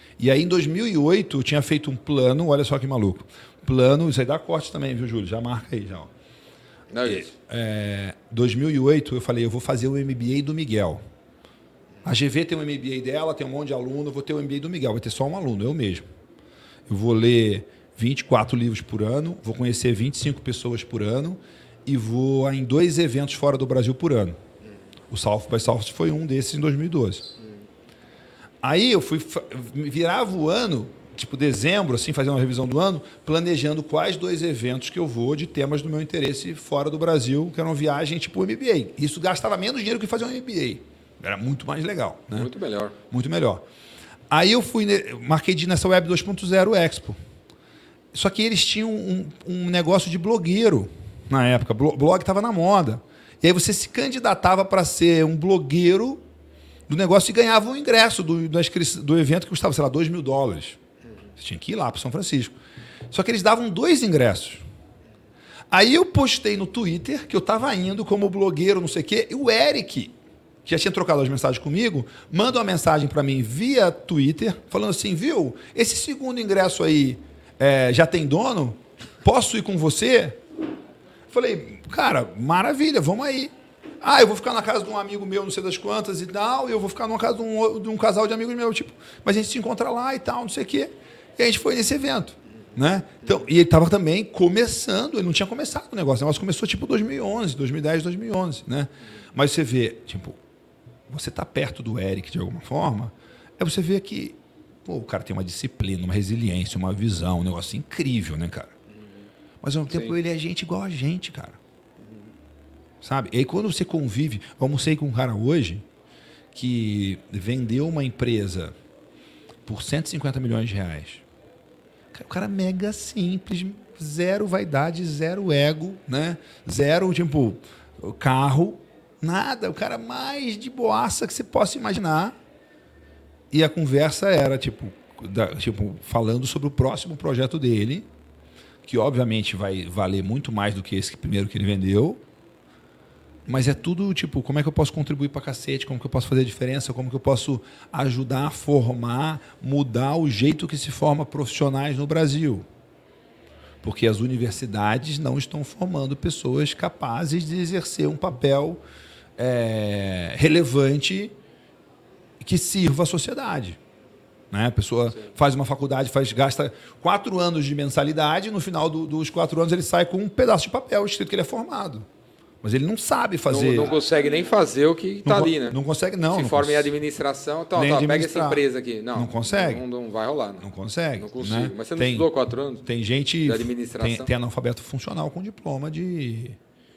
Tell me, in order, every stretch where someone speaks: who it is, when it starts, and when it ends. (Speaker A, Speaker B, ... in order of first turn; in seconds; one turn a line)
Speaker A: 0.2-6.1
Speaker B: 6.9-7.3
Speaker A: 7.0-11.0
Speaker A: 12.0-16.1
Speaker A: 16.9-24.4
Speaker A: 25.1-27.3
Speaker A: 28.6-42.5
Speaker B: 42.3-42.9
Speaker A: 43.1-43.6
Speaker A: 44.3-47.2
Speaker A: 48.1-56.2
Speaker A: 56.9-60.8
Speaker A: 61.4-62.5
Speaker A: 63.1-64.6
Speaker A: 65.7-80.4
Speaker A: 81.3-100.4
Speaker A: 101.1-108.7
Speaker A: 109.6-111.6
Speaker A: 113.0-115.8
Speaker A: 116.5-118.7
Speaker A: 119.7-121.2
Speaker A: 122.1-132.3
Speaker A: 133.5-138.1
Speaker A: 138.8-142.2
Speaker A: 143.4-152.7
Speaker A: 153.8-158.8
Speaker A: 159.4-161.3
Speaker A: 162.4-163.8
Speaker A: 164.5-172.1
Speaker A: 172.6-173.9
Speaker B: 173.5-175.8
Speaker A: 175.2-176.9
Speaker B: 176.3-182.8
Speaker A: 177.7-179.8
Speaker A: 180.6-182.3
Speaker A: 182.8-186.6
Speaker B: 183.4-184.3